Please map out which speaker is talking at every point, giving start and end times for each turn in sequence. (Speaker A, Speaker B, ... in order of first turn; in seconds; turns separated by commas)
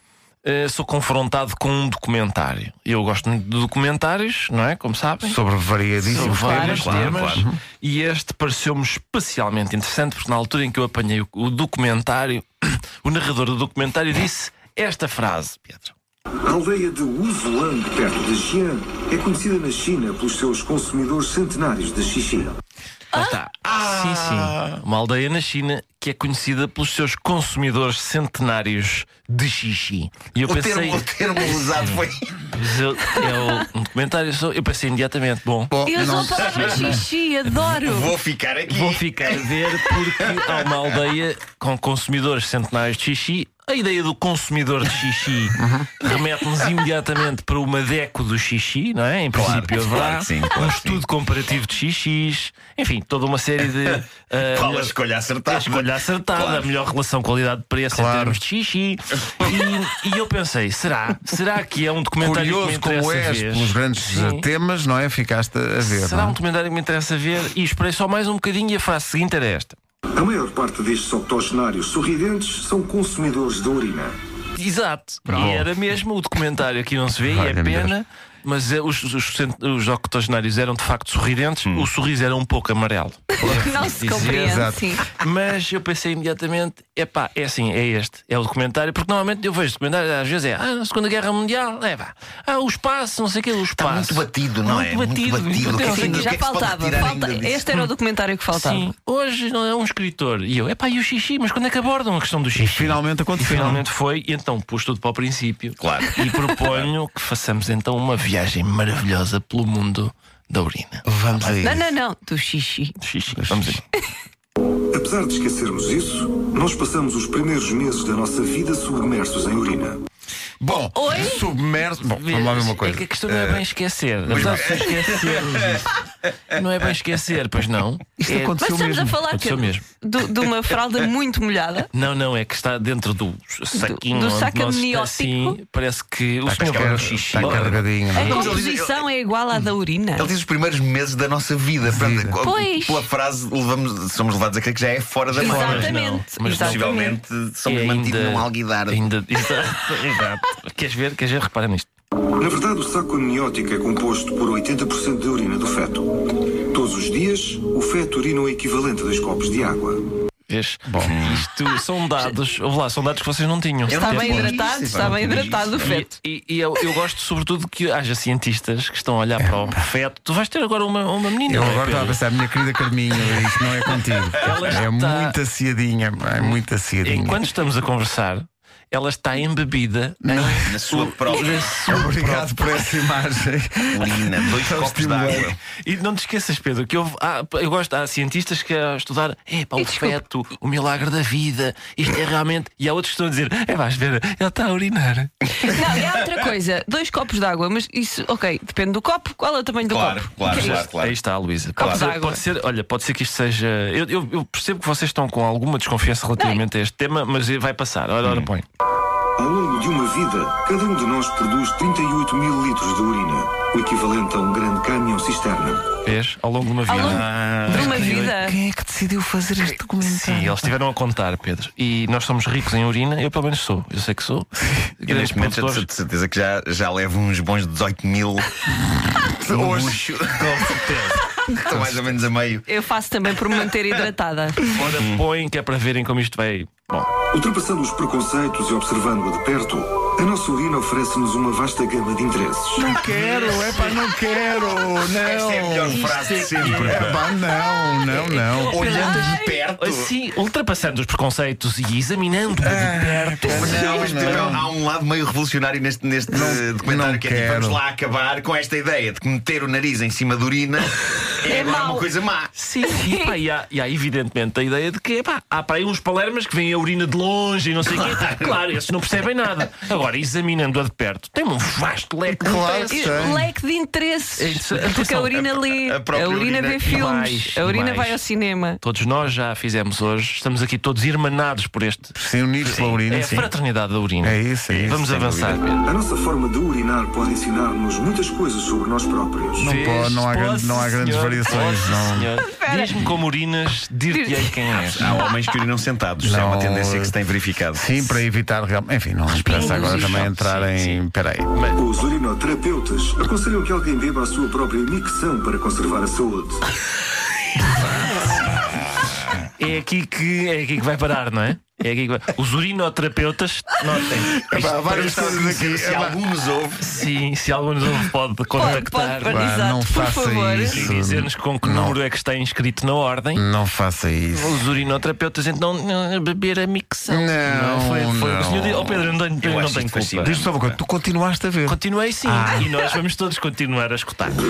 Speaker A: 0.4-5.4, Speaker B: 5.2-7.6, Speaker A: 6.0-15.9, Speaker C: 6.0-7.5, Speaker D: 6.3-6.9, Speaker E: 16.4-22.5, Speaker A: 23.1-37.0, Speaker C: 23.6-24.8, Speaker C: 30.4-32.5, Speaker D: 33.1-33.4, Speaker B: 35.7-37.0, Speaker D: 35.9-38.1, Speaker C: 36.2-36.7, Speaker C: 37.7-40.8, Speaker A: 38.7-64.5, Speaker B: 45.6-45.9, Speaker C: 49.3-51.0, Speaker C: 54.5-56.7, Speaker B: 57.9-58.4, Speaker B: 62.2-66.4, Speaker A: 65.8-69.8, Speaker E: 70.1-74.1, Speaker A: 74.5-96.4, Speaker B: 75.2-75.7, Speaker B: 77.2-77.9, Speaker D: 83.3-85.1, Speaker B: 84.3-84.9, Speaker C: 93.7-97.8, Speaker D: 95.7-98.9, Speaker A: 98.5-111.5, Speaker B: 102.5-103.8, Speaker C: 105.8-106.9, Speaker B: 111.0-111.9, Speaker D: 111.6-113.0, Speaker A: 113.0-113.8, Speaker B: 113.3-113.8, Speaker E: 114.9-120.0, Speaker B: 120.6-123.6, Speaker D: 120.8-121.5, Speaker A: 122.0-125.9, Speaker B: 124.3-124.7, Speaker C: 124.3-125.8, Speaker A: 126.5-128.6, Speaker B: 128.2-129.2, Speaker D: 128.6-131.9, Speaker A: 129.3-129.8, Speaker A: 131.9-137.9, Speaker D: 133.7-135.6, Speaker B: 136.4-138.6, Speaker C: 136.8-139.1, Speaker D: 138.1-140.3, Speaker C: 140.2-149.0, Speaker B: 141.9-142.4, Speaker D: 142.4-143.1, Speaker A: 145.3-146.9, Speaker D: 145.3-147.2, Speaker A: 147.7-151.9, Speaker E: 152.4-156.1, Speaker E: 156.7-160.0, Speaker A: 160.5-172.2, Speaker B: 160.9-161.1, Speaker C: 161.0-161.5, Speaker C: 163.9-165.9, Speaker D: 163.9-166.2, Speaker B: 169.4-169.8, Speaker B: 171.4-177.5, Speaker A: 174.4-175.4, Speaker A: 176.4-182.7, Speaker B: 180.2-180.7, Speaker C: 180.6-181.9, Speaker B: 181.8-185.5, Speaker C: 183.9-185.6, Speaker A: 185.8-195.6, Speaker D: 189.8-190.2, Speaker D: 195.6-200.8, Speaker C: 199.8-201.2, Speaker A: 200.4-208.6, Speaker D: 201.8-202.4, Speaker C: 201.8-202.1, Speaker D: 206.4-206.6, Speaker C: 208.2-208.5, Speaker E: 209.4-215.8, Speaker A: 216.0-218.3, Speaker D: 216.9-218.6, Speaker C: 217.0-218.0, Speaker B: 217.8-220.6, Speaker A: 219.6-225.9, Speaker C: 225.1-228.7, Speaker B: 228.7-230.0, Speaker C: 229.4-232.7, Speaker A: 230.3-232.0, Speaker D: 232.7-234.8, Speaker A: 234.7-237.1, Speaker C: 234.8-235.2, Speaker E: 237.3-242.9, Speaker B: 242.8-246.1, Speaker A: 243.0-244.1, Speaker C: 245.1-247.3, Speaker A: 245.9-247.3, Speaker B: 246.6-249.2, Speaker D: 247.4-249.6, Speaker A: 248.0-254.3, Speaker C: 248.7-250.1, Speaker B: 252.6-254.7, Speaker D: 253.4-254.3, Speaker C: 253.5-262.5, Speaker B: 256.3-257.8, Speaker D: 261.4-262.1, Speaker A: 262.5-273.4, Speaker D: 262.8-263.4, Speaker C: 267.8-268.6, Speaker B: 272.3-273.5, Speaker D: 272.9-278.8, Speaker A: 274.4-275.5, Speaker C: 275.7-277.1, Speaker A: 276.8-278.2, Speaker A: 278.8-285.8, Speaker B: 282.1-283.5, Speaker C: 283.1-283.5, Speaker B: 284.2-285.0, Speaker C: 284.7-285.6, Speaker E: 285.8-289.6, Speaker B: 289.6-292.4, Speaker A: 289.6-295.2, Speaker D: 292.4-293.1, Speaker D: 294.1-295.4, Speaker C: 294.7-297.9, Speaker B: 296.2-297.1, Speaker B: 297.7-301.5, Speaker A: 299.3-301.9, Speaker D: 299.5-300.1, Speaker E: 301.7-306.6, Speaker A: 309.6-315.4, Speaker B: 314.4-316.2, Speaker C: 314.6-316.9, Speaker A: 316.8-319.5, Speaker D: 318.5-320.9, Speaker B: 318.6-322.0, Speaker A: 320.7-323.4, Speaker B: 323.3-324.6, Speaker A: 324.3-330.4, Speaker B: 327.1-329.1, Speaker C: 329.4-330.8, Speaker B: 330.2-332.7, Speaker A: 331.6-334.4